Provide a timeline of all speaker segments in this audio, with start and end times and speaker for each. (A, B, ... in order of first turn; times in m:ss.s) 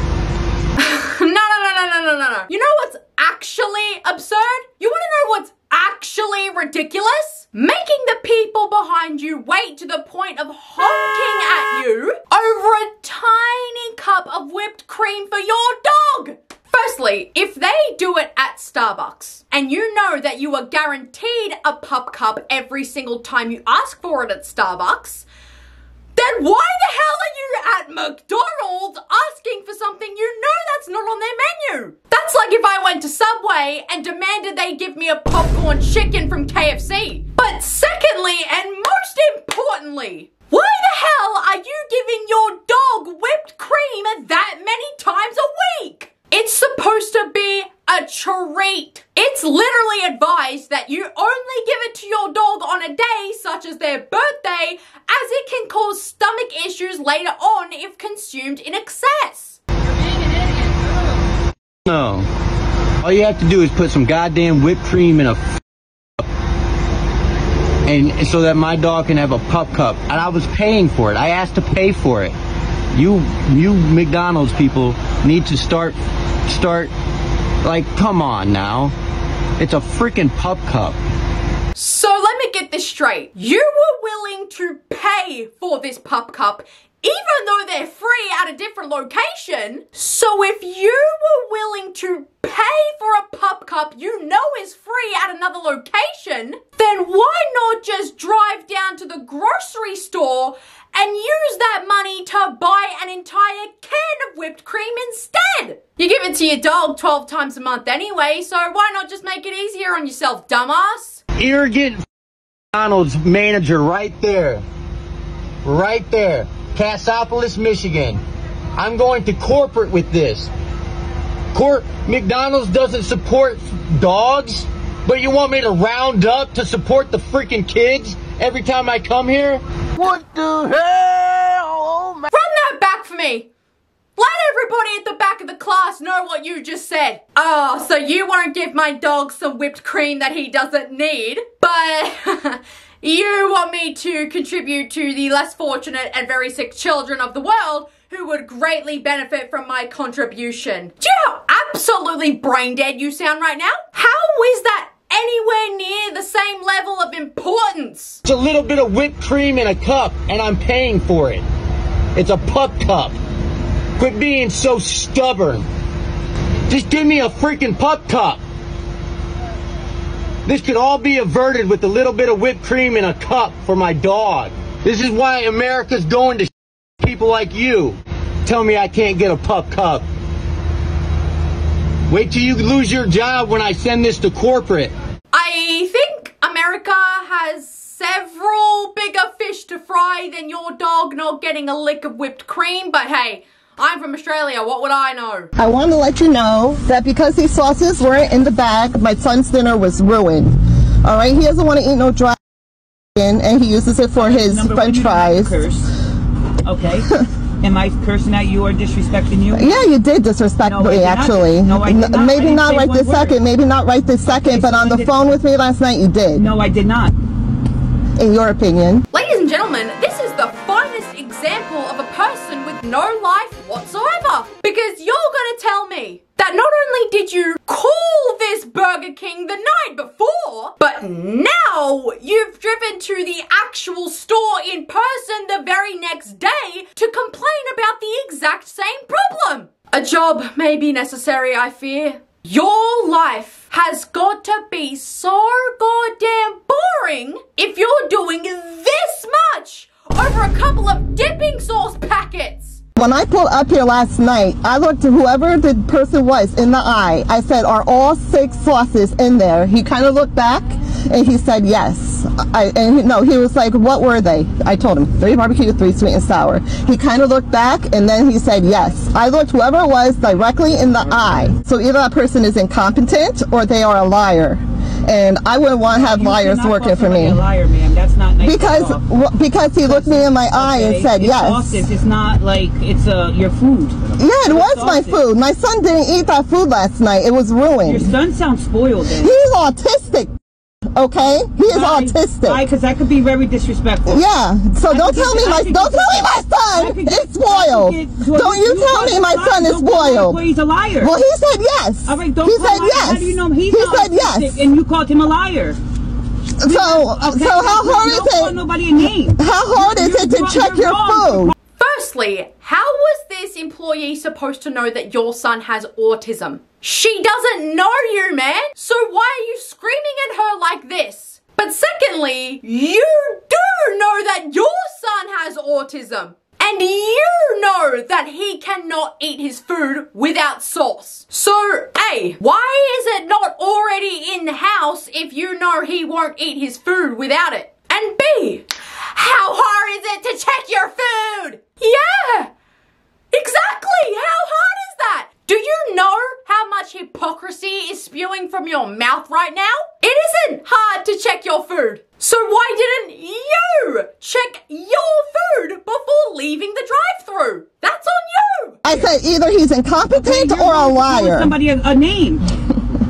0:00.8-0:25.2 A
0:26.1-0:59.6 A
1:01.9-1:02.2 B
1:03.0-1:05.5 B
1:07.9-1:12.3 B
1:12.9-1:16.0 B
1:16.5-1:16.9 B
1:17.6-1:18.9 B
1:19.6-1:21.0 B
1:21.8-1:51.2 A
1:51.4-1:52.0 B
1:52.7-1:54.6 B
1:55.6-1:58.2 B
1:58.8-2:00.5 B
2:01.5-2:09.6 B
2:12.3-2:13.5 A
2:14.2-2:38.2 A
2:38.2-2:41.4 B
2:42.1-2:43.1 B
2:44.0-2:45.7 B
2:46.7-2:48.4 B
2:50.4-2:56.5 B
2:57.0-3:00.0 B
3:02.1-3:04.9 B
3:05.3-3:15.5 A
3:15.6-3:22.4 C
3:23.2-3:25.6 C
3:24.2-3:25.9 D
3:26.6-3:27.1 D
3:27.6-3:29.8 D
3:29.5-3:36.4 C
3:30.6-3:33.4 D
3:34.3-3:35.2 D
3:36.3-3:37.1 D
3:38.2-3:39.0 C
3:39.1-4:12.8 A
4:13.0-4:37.4 C
4:35.9-4:39.0 D
4:38.4-4:41.8 C
4:39.8-4:45.2 D
4:44.2-4:48.1 C
4:47.8-4:49.3 D
4:49.2-4:50.3 C
4:50.9-4:52.6 C
4:51.6-4:54.2 D
4:54.1-5:00.4 C
4:54.9-5:01.1 D
5:01.0-5:04.7 C
5:02.0-5:05.8 D
5:06.6-5:08.6 C
5:06.6-5:11.5 D
5:09.4-5:11.5 C
5:11.8-5:42.5 A
5:43.3-5:58.8 A
5:58.8-6:01.5 C
6:00.1-6:02.4 D